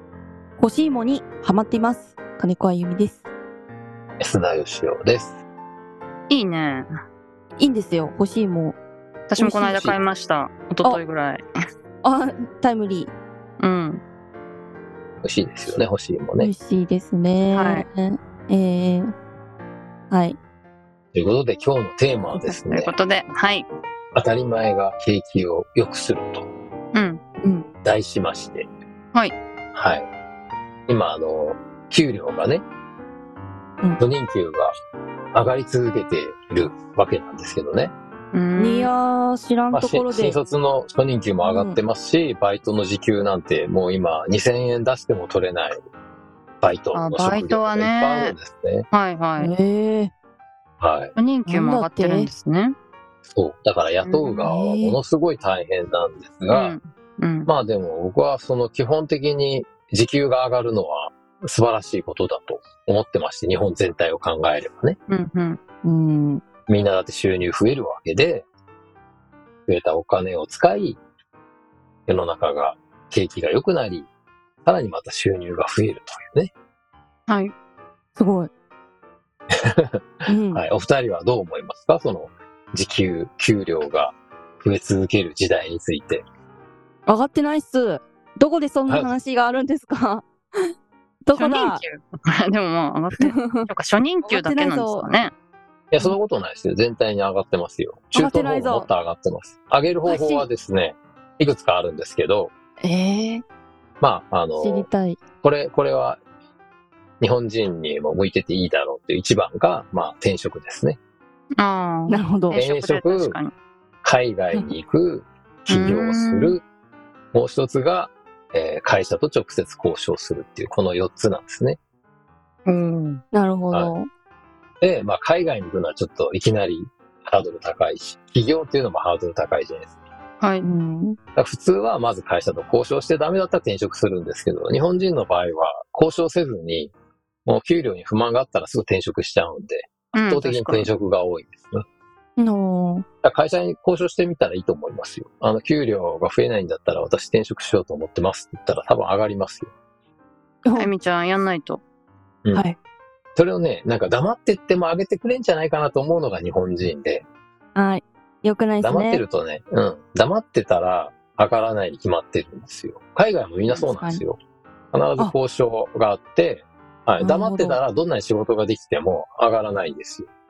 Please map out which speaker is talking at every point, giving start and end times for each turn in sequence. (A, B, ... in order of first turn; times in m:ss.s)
0:00.6-0:03.3 A
0:04.2-0:05.4 B
0:06.3-0:06.9 C
0:07.6-0:08.8 A
0:09.3-0:11.4 C
0:09.4-0:10.0 B
0:09.4-0:09.7 A
0:12.0-0:13.1 A
0:13.6-0:14.0 C
0:15.2-0:16.5 B
0:16.4-0:19.1 A
0:17.5-0:17.8 C
0:20.1-0:20.4 A
0:21.1-0:22.9 B
0:22.3-0:23.7 C
0:24.1-0:26.5 B
0:26.9-0:27.7 C
0:27.8-0:28.7 B
0:29.7-0:30.1 B
0:30.9-0:32.6 B
0:34.0-0:34.7 B
0:35.3-0:37.9 B
0:38.3-0:38.9 C
0:38.6-0:40.4 A
0:39.7-0:45.8 B
0:41.4-0:41.8 A
0:46.6-0:48.9 B
0:46.9-0:48.3 C
0:48.9-0:49.5 C
0:49.4-0:50.1 A
0:50.8-0:51.2 B
0:51.2-0:52.7 C
0:51.5-0:52.3 A
0:53.2-0:56.8 B
0:54.0-0:54.3 C
0:54.4-0:55.0 A
0:56.5-0:57.5 C
0:57.4-1:05.0 B
1:05.1-1:05.6 C
1:05.8-1:06.4 A
1:06.7-1:08.4 B
1:09.7-1:11.0 B
1:12.1-1:14.1 B
1:14.6-1:16.5 B
1:17.3-1:17.5 C
1:18.2-1:18.5 A
1:19.5-1:26.2 B
1:20.3-1:20.6 A
1:27.1-1:30.7 A
1:28.9-1:29.1 B
1:31.2-1:31.8 A
1:31.3-1:35.3 C
1:33.2-1:33.7 A
1:34.2-1:35.1 A
1:35.9-1:42.5 B
1:38.1-1:38.9 A
1:40.1-1:40.5 A
1:42.8-1:43.4 A
1:44.0-1:44.9 B
1:44.6-1:45.2 A
1:45.4-1:46.2 B
1:47.2-1:51.0 B
1:51.6-1:53.5 C
1:52.1-1:52.6 A
1:52.5-1:53.4 B
1:54.0-1:56.6 B
1:55.7-1:56.6 C
1:57.3-2:01.8 B
2:02.6-2:03.2 C
2:03.3-2:04.1 A
2:04.8-2:09.9 B
2:10.6-2:11.2 A
2:11.4-2:16.9 B
2:17.4-2:21.8 B
2:20.1-2:20.9 C
2:22.4-2:23.0 A
2:23.2-2:29.7 B
2:30.6-2:30.9 A
2:30.7-2:31.8 C
2:32.5-2:32.8 A
2:33.4-2:37.2 B
2:37.8-2:39.2 A
2:38.8-2:44.4 B
2:43.9-2:44.2 A
2:44.9-2:50.3 B
2:47.2-2:47.8 A